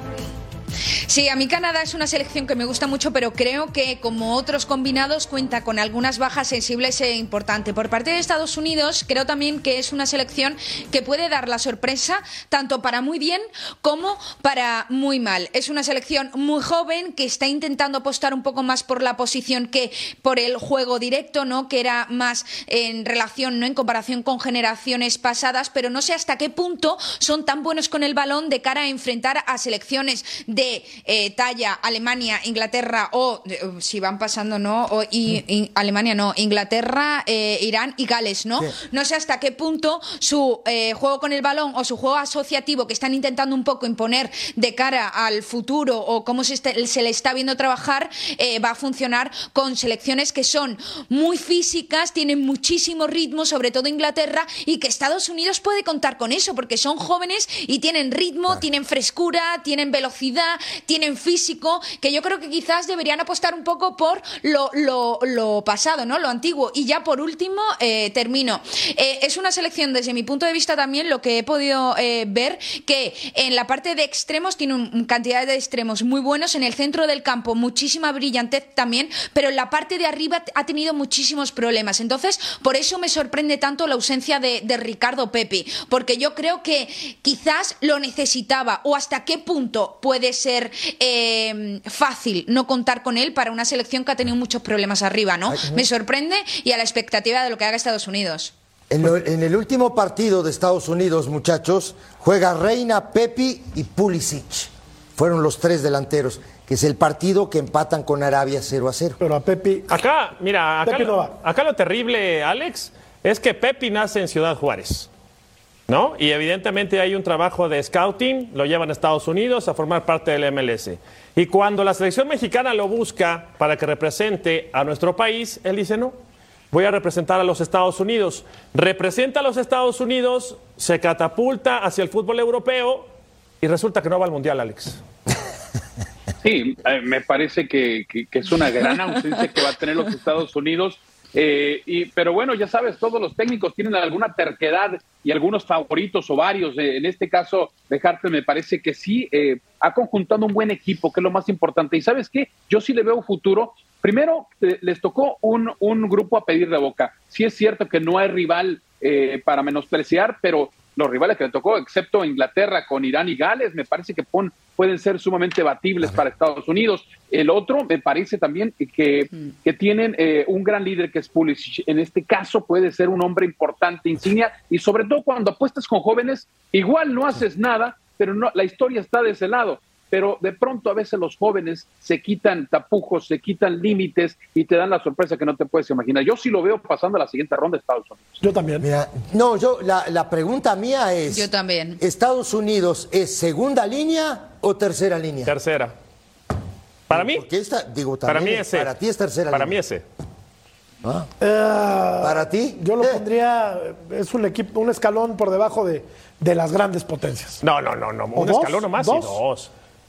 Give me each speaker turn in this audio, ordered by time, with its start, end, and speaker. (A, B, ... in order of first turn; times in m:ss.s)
0:01.1-1:38.5 A
1:35.5-1:35.8 B
1:38.9-1:49.2 B
1:49.2-1:50.0 C
1:49.9-1:55.1 D
1:50.8-1:51.3 C
1:55.9-2:06.1 D
2:06.7-2:13.1 D
2:13.6-2:15.0 D
2:16.4-3:08.4 E
3:08.4-3:08.8 C
3:08.8-3:15.5 B
3:11.3-3:12.0 A
3:15.4-3:15.9 D
3:17.1-3:17.4 D
3:17.1-3:19.8 B
3:18.2-3:18.9 D
3:19.5-3:20.0 D
3:21.0-3:21.3 B
3:21.4-3:27.6 C
3:22.2-3:23.2 B
3:27.6-3:29.7 D
3:28.3-3:29.4 C